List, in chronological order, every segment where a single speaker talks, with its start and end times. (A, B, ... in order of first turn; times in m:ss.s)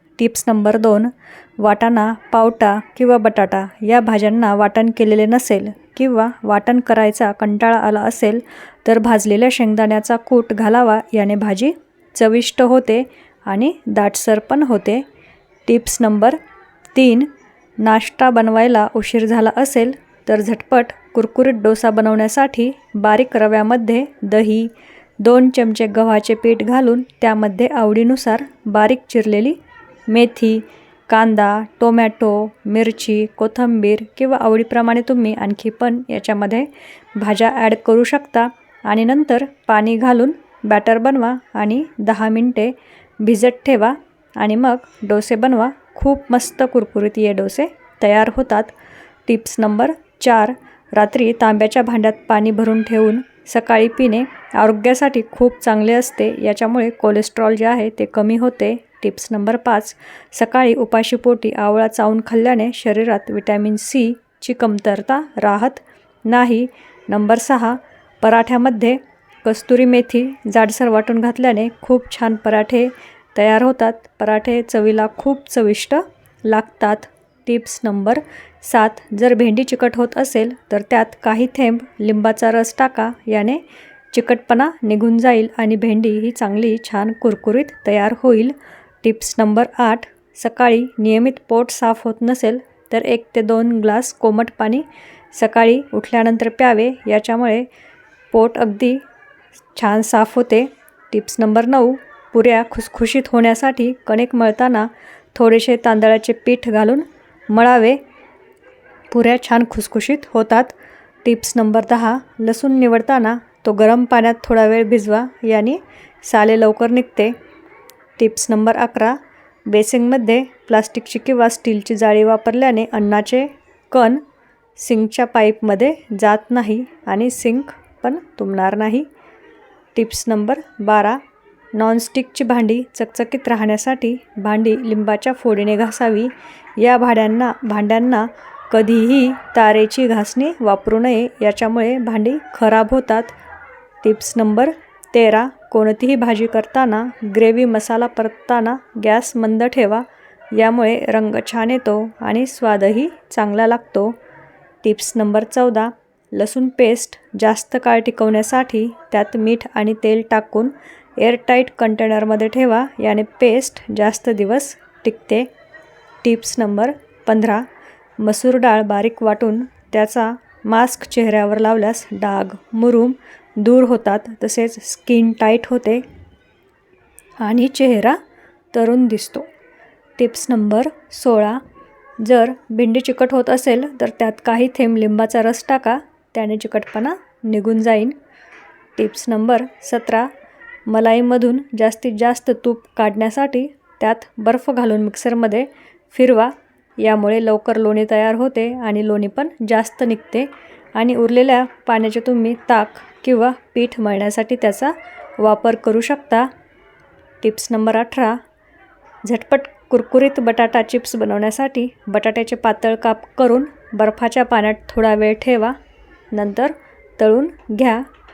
0:00.2-0:15.0 A
0:15.6-0:16.4 A
0:16.9-0:29.6 A
0:30.1-0:48.7 A
0:49.3-1:37.7 A
1:38.3-1:39.0 A
1:39.7-1:48.0 A
1:49.1-1:57.3 A
1:58.2-2:04.2 A
2:04.8-2:09.1 A
2:09.9-2:11.2 A
2:11.7-2:23.3 A
2:24.0-2:34.2 A
2:34.8-2:45.5 A
2:46.2-2:47.6 A
2:48.2-2:56.0 A
2:57.4-2:58.2 A
2:58.7-2:59.5 A
3:00.2-3:01.6 A
3:02.2-3:08.1 A
3:09.0-3:10.3 A
3:10.9-3:26.5 A
3:27.4-3:28.4 A
3:29.2-3:35.7 A
3:36.3-3:38.0 A